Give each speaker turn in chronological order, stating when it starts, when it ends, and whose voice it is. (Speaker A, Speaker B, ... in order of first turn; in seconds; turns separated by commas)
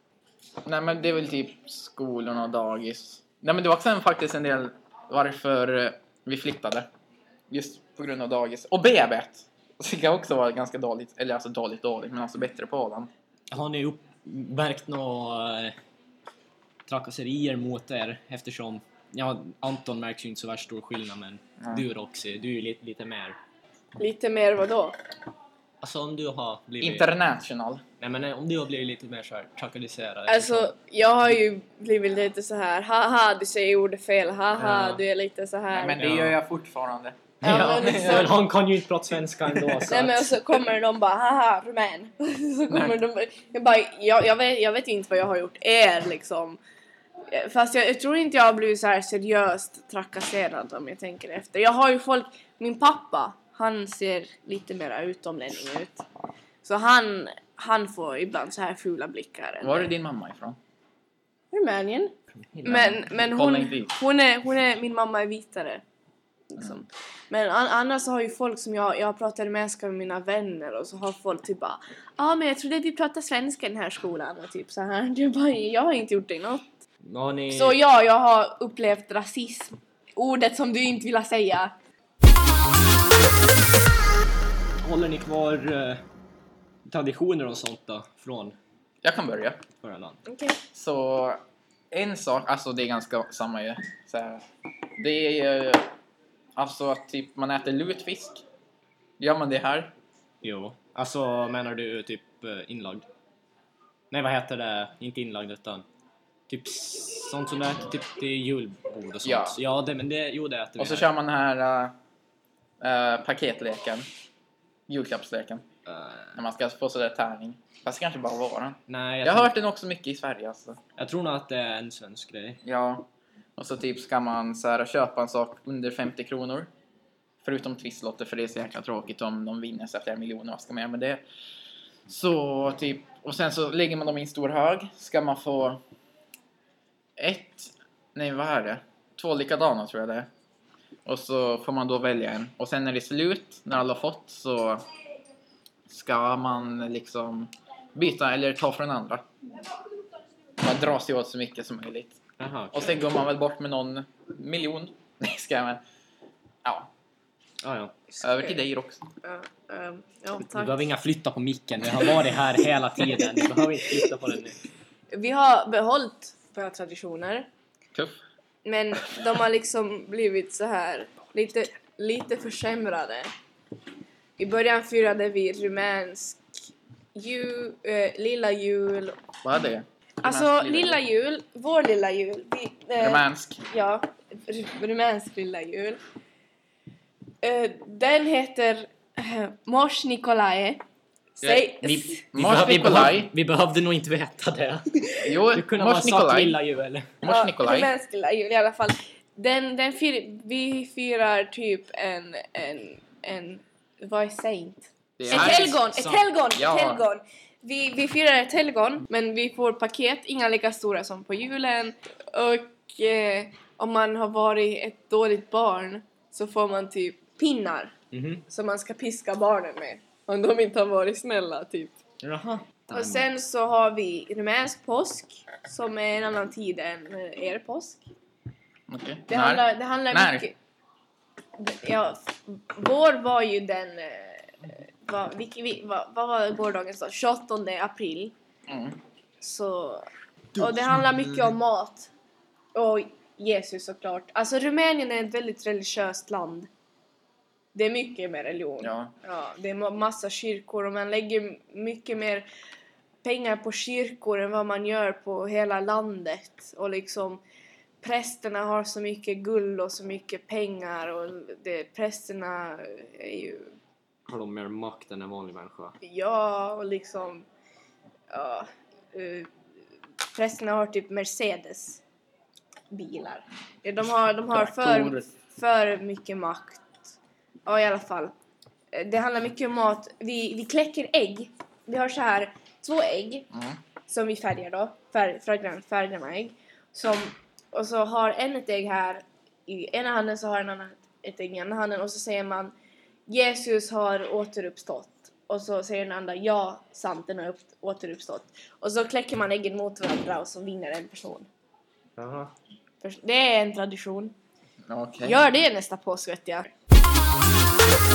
Speaker A: 0.7-6.9, Speaker A: 7.5-13.1, Speaker B: 13.5-15.7, Speaker B: 16.9-23.4, Speaker A: 21.6-21.8, Speaker C: 24.0-24.9, Speaker B: 25.8-27.1, Speaker A: 26.8-27.8, Speaker B: 28.0-30.7, Speaker C: 30.3-36.0, Speaker B: 34.5-35.0, Speaker A: 35.7-38.3, Speaker B: 36.0-36.4, Speaker C: 37.4-38.3, Speaker B: 37.4-40.3, Speaker C: 39.9-46.6, Speaker A: 42.7-42.9, Speaker C: 47.3-56.0, Speaker C: 56.6-59.9, Speaker A: 59.6-60.6, Speaker C: 61.5-65.8, Speaker B: 62.5-63.0, Speaker A: 62.9-63.9, Speaker C: 66.5-76.7, Speaker B: 77.0-77.8, Speaker C: 77.5-81.7, Speaker B: 84.8-86.0, Speaker B: 86.8-88.5, Speaker A: 89.0-89.6, Speaker B: 89.8-90.2, Speaker C: 90.2-90.6, Speaker A: 90.7-91.4, Speaker A: 91.9-94.4, Speaker A: 95.0-95.8, Speaker A: 96.5-98.4, Speaker A: 99.2-99.9, Speaker B: 100.4-103.1, Speaker B: 104.1-105.8, Speaker B: 106.5-111.1, Speaker A: 109.2-109.6, Speaker A: 110.8-111.9, Speaker A: 112.8-114.0, Speaker A: 114.9-115.6, Speaker B: 115.9-116.4, Speaker A: 116.3-120.8, Speaker B: 118.9-119.5, Speaker B: 121.0-122.6, Speaker A: 122.6-126.7, Speaker A: 127.4-131.2, Speaker A: 132.1-135.8, Speaker A: 137.2-140.3, Speaker A: 141.1-144.8, Speaker A: 145.9-149.2, Speaker A: 150.6-152.2, Speaker B: 152.4-152.9, Speaker A: 152.7-155.8, Speaker B: 157.6-157.9, Speaker C: 158.2-158.6, Speaker A: 158.2-159.0, Speaker C: 159.2-160.8, Speaker B: 160.5-164.6, Speaker C: 163.2-163.5, Speaker C: 165.1-167.5, Speaker C: 168.6-173.3, Speaker C: 174.4-176.4, Speaker C: 177.1-179.2, Speaker A: 179.4-181.0, Speaker C: 180.2-186.0, Speaker A: 183.0-183.6, Speaker C: 187.4-190.8, Speaker C: 191.4-192.2, Speaker A: 191.4-193.3, Speaker B: 192.3-197.1, Speaker A: 195.2-196.6, Speaker A: 197.2-197.9, Speaker C: 197.2-217.9, Speaker A: 205.2-205.7, Speaker B: 205.3-206.3, Speaker A: 206.5-207.0, Speaker B: 218.1-218.4, Speaker C: 218.5-221.9, Speaker B: 222.2-223.3, Speaker C: 222.9-228.1, Speaker A: 228.9-230.5, Speaker C: 229.3-230.5, Speaker C: 231.6-238.3, Speaker A: 238.7-239.0, Speaker C: 239.4-242.1, Speaker A: 240.6-241.1, Speaker C: 242.7-246.7, Speaker C: 247.7-252.5, Speaker A: 248.8-249.1, Speaker C: 253.2-257.4, Speaker C: 258.0-263.7, Speaker B: 264.2-265.9, Speaker C: 266.0-267.4, Speaker C: 268.3-269.5, Speaker C: 270.3-272.0, Speaker C: 272.9-276.9, Speaker A: 274.5-275.3, Speaker C: 277.6-278.3, Speaker C: 278.9-283.5, Speaker A: 283.5-283.8, Speaker C: 284.1-292.7, Speaker C: 293.3-301.5, Speaker B: 302.2-302.5, Speaker C: 303.0-304.3, Speaker A: 304.9-305.4, Speaker C: 305.2-306.7